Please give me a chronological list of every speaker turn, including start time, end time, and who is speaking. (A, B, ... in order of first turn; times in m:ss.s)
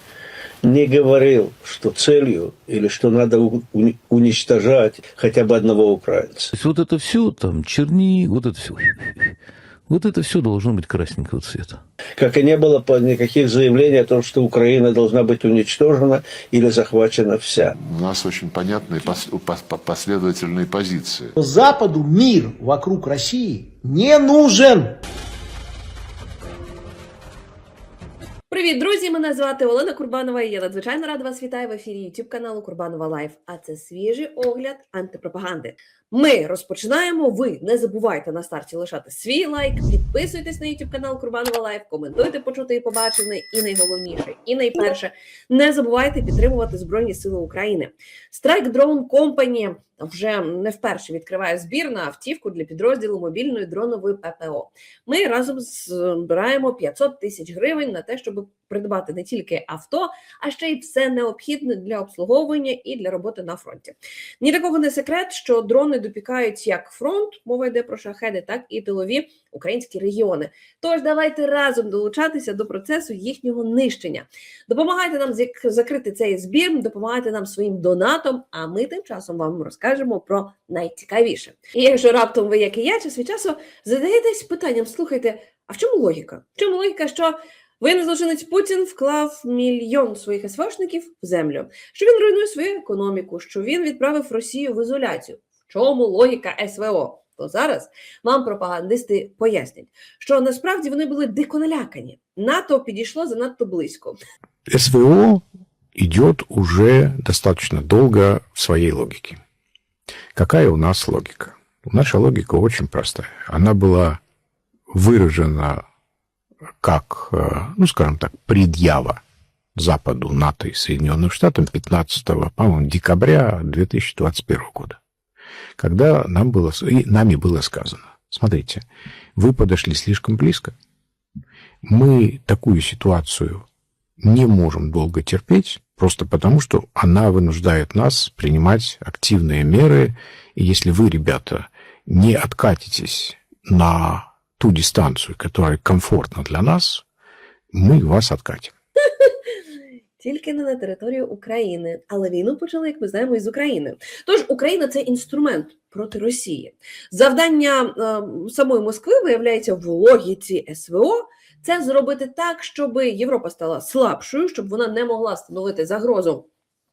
0:00.6-0:06.5 A
0:06.5-0:09.4 B
0:09.9-0:11.8 B
0:12.2-0:17.8 A
0:17.8-0:21.4 C
0:21.4-0:25.0 D
0:28.5-1:44.2 E
1:44.7-1:45.4 F
1:46.0-1:49.4 F
1:50.4-1:54.2 F
1:54.9-1:55.8 F
1:56.8-1:59.2 F
1:59.8-2:05.0 F
2:05.8-2:08.8 F
2:09.4-2:10.7 F
2:11.8-2:13.6 F
2:14.2-2:27.0 F
2:27.7-2:28.7 F
2:30.2-2:46.5 E